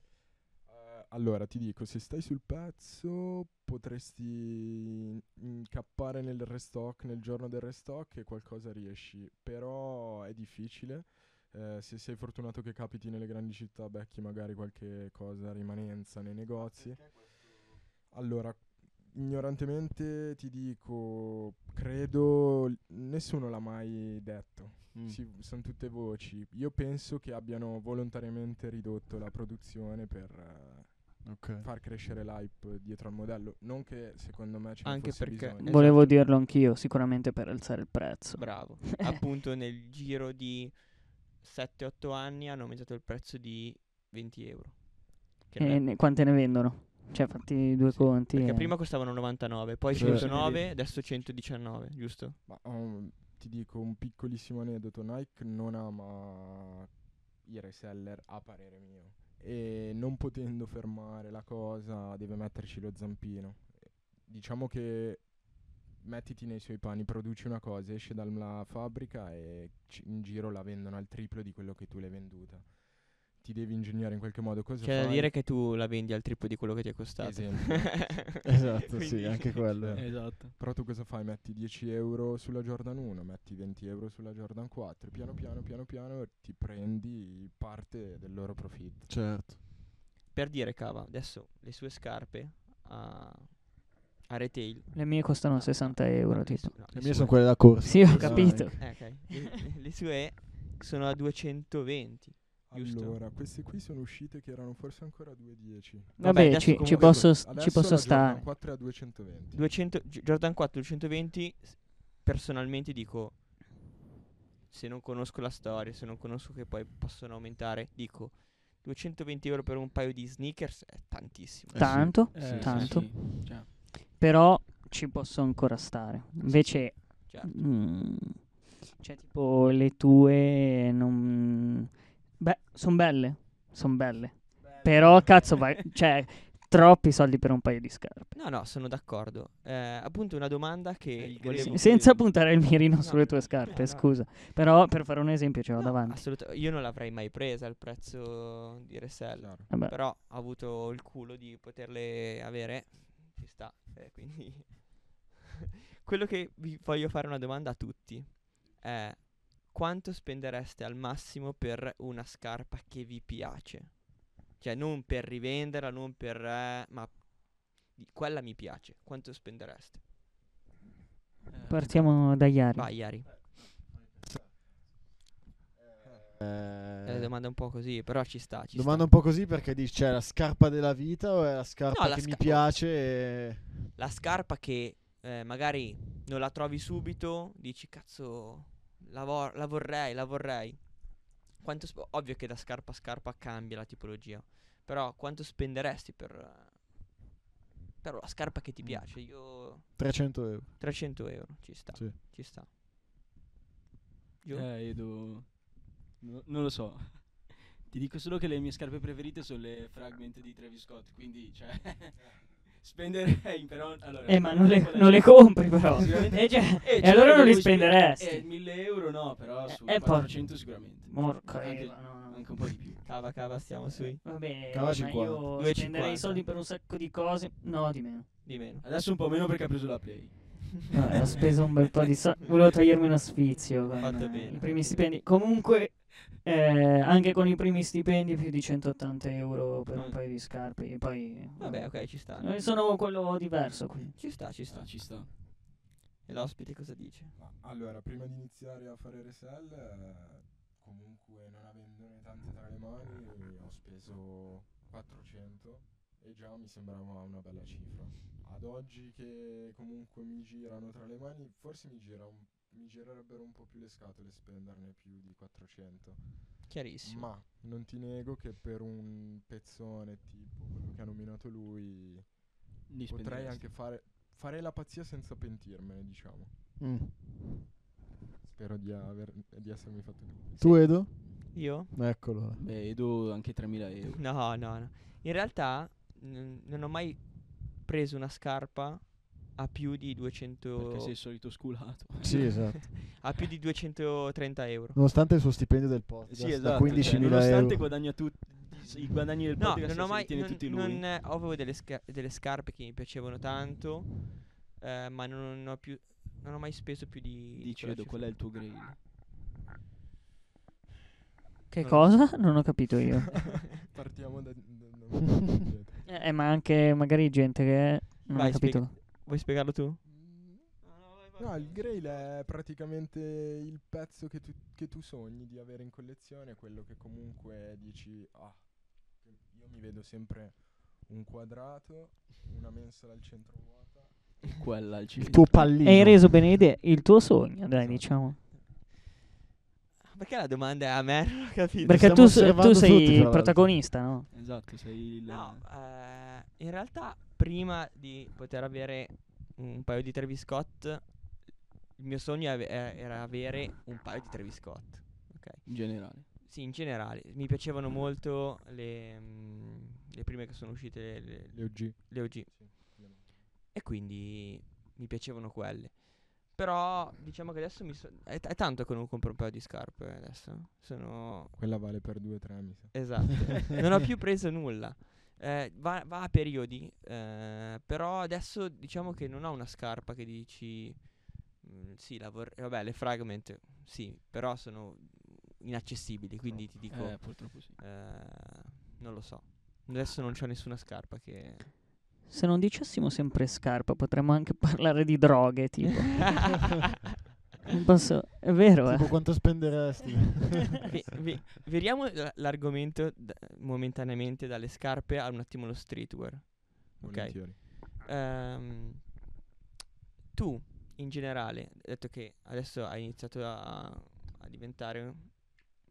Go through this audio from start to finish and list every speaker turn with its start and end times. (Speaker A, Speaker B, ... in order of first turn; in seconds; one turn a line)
Speaker A: 0.7-36.1
Speaker B: 24.9-25.2
Speaker B: 31.2-31.7
Speaker C: 34.8-36.2
Speaker D: 35.6-39.0
Speaker C: 38.4-45.9
Speaker D: 45.6-48.8
Speaker C: 47.9-52.4
Speaker B: 49.9-50.3
Speaker A: 50.0-51.4
Speaker E: 50.0-50.7
Speaker A: 52.5-75.3
Speaker C: 74.8-79.9
Speaker A: 77.2-78.5
Speaker B: 78.5-80.2
Speaker A: 79.8-89.1
Speaker E: 79.9-80.6
Speaker B: 89.1-89.6
Speaker C: 90.3-103.2
Speaker D: 94.9-96.7
Speaker B: 96.9-99.0
Speaker D: 97.8-99.2
Speaker A: 102.7-109.6
Speaker D: 106.2-108.5
Speaker C: 106.2-107.3
Speaker C: 109.5-113.4
Speaker C: 114.7-122.1
Speaker B: 121.7-122.9
Speaker D: 121.8-138.3
Speaker E: 122.3-123.7
Speaker C: 126.8-127.7
Speaker C: 138.3-141.8
Speaker E: 141.2-142.3
Speaker D: 141.7-146.2
Speaker C: 143.0-144.2
Speaker C: 145.8-155.3
Speaker A: 149.3-149.7
Speaker D: 149.7-150.0
Speaker C: 156.0-170.1
Speaker E: 171.5-172.1
Speaker D: 171.7-172.9
Speaker C: 172.7-173.4
Speaker B: 176.4-177.3
Speaker C: 177.1-179.1
Speaker B: 178.7-183.7
Speaker C: 181.9-182.8
Speaker C: 183.9-197.1
Speaker C: 198.0-202.7
Speaker B: 198.9-201.2
Speaker C: 204.4-204.7
Speaker E: 204.5-223.0
Speaker D: 214.3-218.5
Speaker D: 219.7-223.1
Speaker C: 223.0-224.2
Speaker D: 224.2-228.3
Speaker B: 224.7-225.5
Speaker C: 225.6-226.4
Speaker C: 228.4-228.8
Speaker E: 228.8-231.5
Speaker D: 230.9-244.2
Speaker C: 234.0-234.7
Speaker E: 234.0-234.9
Speaker C: 239.9-240.2
Speaker C: 241.6-242.6
Speaker C: 244.2-245.7
Speaker E: 244.6-245.5
Speaker C: 246.2-247.3
Speaker A: 247.3-276.5
Speaker C: 266.7-267.4
Speaker E: 272.9-273.7
Speaker B: 276.8-277.6
Speaker A: 278.4-281.3
Speaker B: 280.6-282.6
Speaker C: 280.6-282.2
Speaker E: 282.5-284.2
Speaker C: 284.1-291.1
Speaker E: 290.8-292.8
Speaker B: 292.2-293.1
Speaker C: 292.3-295.0
Speaker B: 294.9-298.2
Speaker E: 296.2-301.1
Speaker C: 296.8-297.5
Speaker C: 299.6-308.4
Speaker E: 307.6-309.0
Speaker D: 311.7-313.5
Speaker A: 311.8-312.7
Speaker A: 313.6-316.0
Speaker D: 316.1-318.9
Speaker C: 318.3-320.0
Speaker A: 320.0-320.8
Speaker E: 320.8-322.3
Speaker A: 321.4-334.6
Speaker E: 334.5-335.9
Speaker B: 335.2-336.5
Speaker D: 335.8-338.4
Speaker A: 337.8-338.1
Speaker C: 340.1-342.3
Speaker D: 341.8-344.3
Speaker B: 341.9-343.8
Speaker E: 344.3-345.7
Speaker C: 345.3-363.1
Speaker E: 355.6-356.3
Speaker A: 361.5-363.5
Speaker C: 363.7-371.6
Speaker A: 371.5-373.5
Speaker C: 372.9-391.7
Speaker A: 386.4-386.7
Speaker E: 386.9-387.8
Speaker D: 392.3-396.5
Speaker D: 397.7-399.4
Speaker B: 398.8-400.8
Speaker C: 400.8-409.1
Speaker A: 407.0-407.6
Speaker C: 410.3-415.7